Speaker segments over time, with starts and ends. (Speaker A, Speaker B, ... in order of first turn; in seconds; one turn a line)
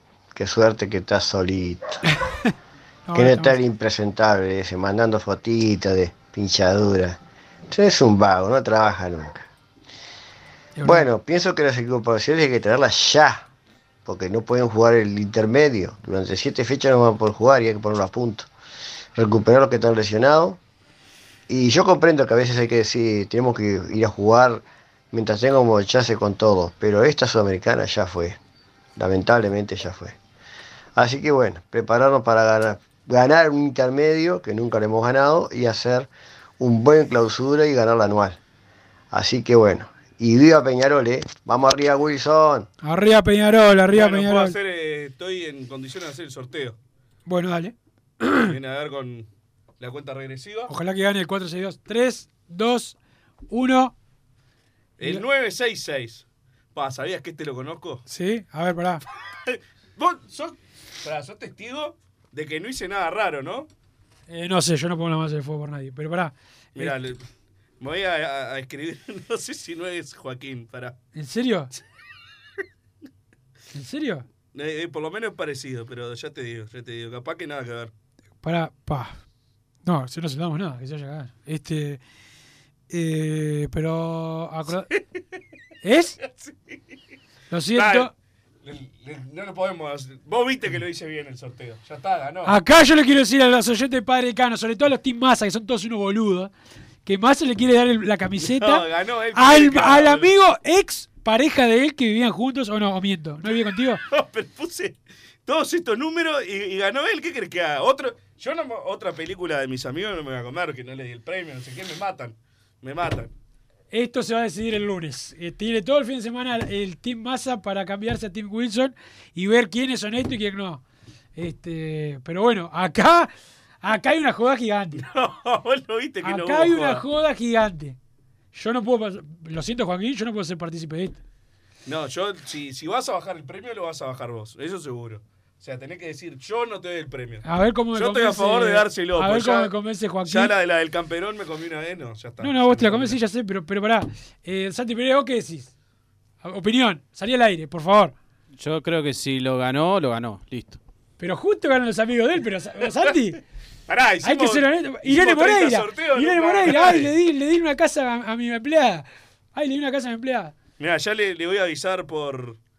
Speaker A: 0.3-1.9
Speaker B: 2.1-2.5
Speaker B: 3.0-3.6
Speaker A: 3.1-7.2
Speaker A: 7.7-9.4
Speaker B: 10.8-11.1
Speaker A: 10.8-13.4
Speaker A: 14.1-18.5
Speaker A: 19.2-20.6
Speaker A: 21.5-28.4
Speaker A: 29.0-30.1
Speaker A: 30.9-36.1
Speaker A: 36.6-38.4
Speaker A: 39.1-42.7
Speaker B: 42.8-44.6
Speaker C: 43.9-46.8
Speaker B: 47.3-48.5
Speaker C: 48.5-49.2
Speaker C: 49.8-50.7
Speaker B: 50.7-53.0
Speaker B: 53.5-53.9
Speaker C: 55.0-56.2
Speaker C: 56.7-58.0
Speaker B: 58.1-59.0
Speaker C: 59.5-63.7
Speaker B: 64.3-67.0
Speaker C: 66.8-67.2
Speaker C: 67.8-70.9
Speaker B: 71.1-71.7
Speaker B: 73.7-74.2
Speaker C: 74.5-77.9
Speaker B: 78.4-79.2
Speaker B: 79.8-82.0
Speaker B: 82.9-84.9
Speaker B: 85.8-86.2
Speaker C: 86.2-86.8
Speaker B: 87.5-88.1
Speaker C: 87.7-88.1
Speaker C: 88.6-92.5
Speaker B: 92.4-96.5
Speaker B: 97.0-104.0
Speaker C: 98.4-100.3
Speaker C: 104.1-113.3
Speaker B: 113.9-120.8
Speaker B: 121.3-123.3
Speaker B: 123.8-125.0
Speaker C: 125.0-127.0
Speaker B: 126.2-128.0
Speaker B: 128.5-131.2
Speaker C: 131.8-139.7
Speaker B: 137.4-140.5
Speaker C: 140.2-143.2
Speaker B: 142.4-145.7
Speaker B: 146.4-148.1
Speaker D: 148.6-150.8
Speaker B: 151.2-153.4
Speaker C: 153.9-157.1
Speaker B: 154.2-160.5
Speaker C: 160.8-162.6